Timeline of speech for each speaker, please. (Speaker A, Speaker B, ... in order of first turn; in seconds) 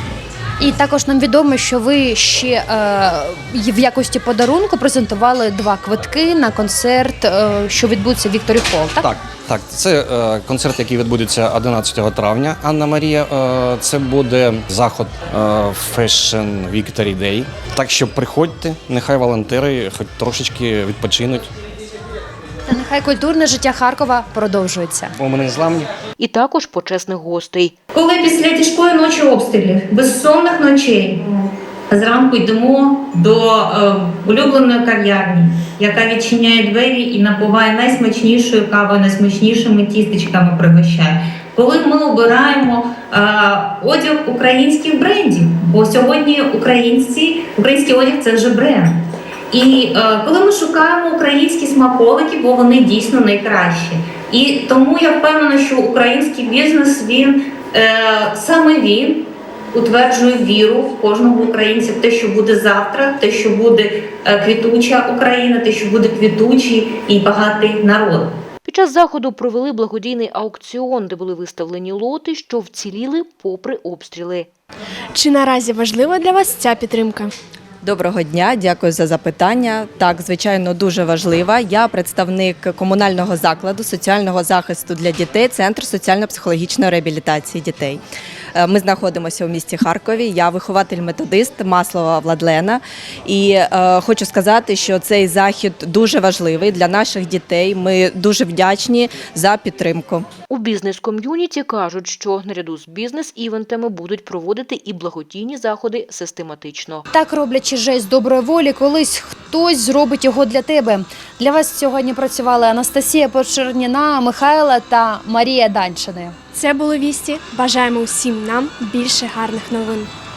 Speaker A: 0.6-9.1, 22.7-25.1, 107.1-116.3
Speaker B: 9.0-21.5, 25.2-25.9
Speaker C: 26.2-27.7, 68.6-74.5, 100.5-107.0
Speaker D: 27.9-48.9, 49.5-68.3
Speaker E: 75.1-77.3, 116.5-120.1
Speaker F: 77.8-88.0, 88.5-100.3